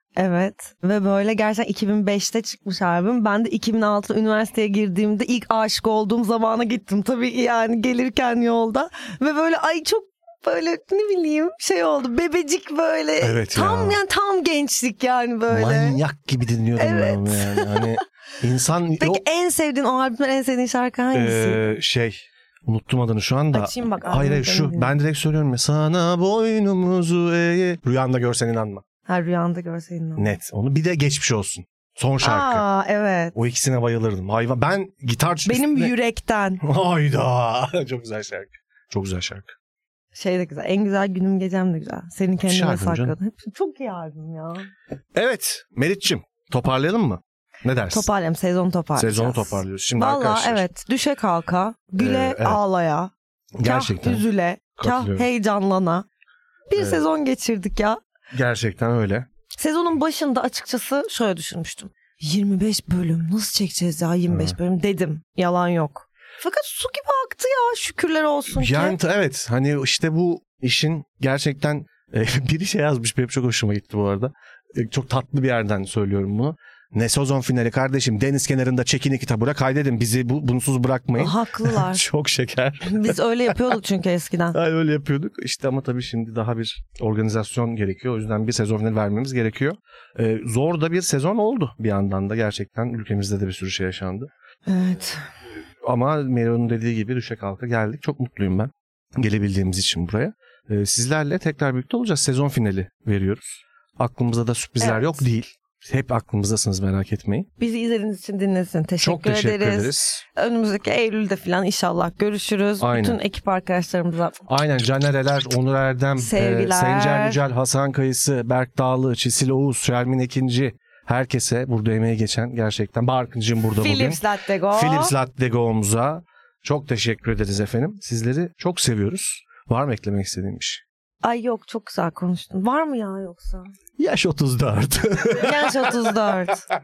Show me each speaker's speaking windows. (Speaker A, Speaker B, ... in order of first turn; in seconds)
Speaker A: 0.2-16.0, 16.8-18.0, 19.0-21.6, 23.5-24.9, 29.1-30.3, 32.2-33.3, 35.5-36.6, 40.1-44.7, 47.9-53.1, 53.6-56.1, 56.7-58.0, 59.6-69.0, 81.2-82.0, 82.8-84.6, 94.7-95.2, 104.8-105.2, 107.6-114.4, 116.2-117.4, 123.8-125.1, 131.2-133.7, 135.4-136.6
Speaker B: 13.2-14.0, 15.5-19.2, 21.1-28.8, 30.2-32.7, 33.4-35.9, 36.6-39.5, 42.5-43.2, 45.1-48.1, 49.0-50.7, 52.0-52.6, 53.6-54.2, 54.8-55.3, 56.8-57.0, 58.3-59.3, 64.3-64.6, 68.5-83.2, 84.5-94.3, 95.8-107.5, 109.0-110.2, 112.8-113.2, 114.5-130.8, 134.0-136.1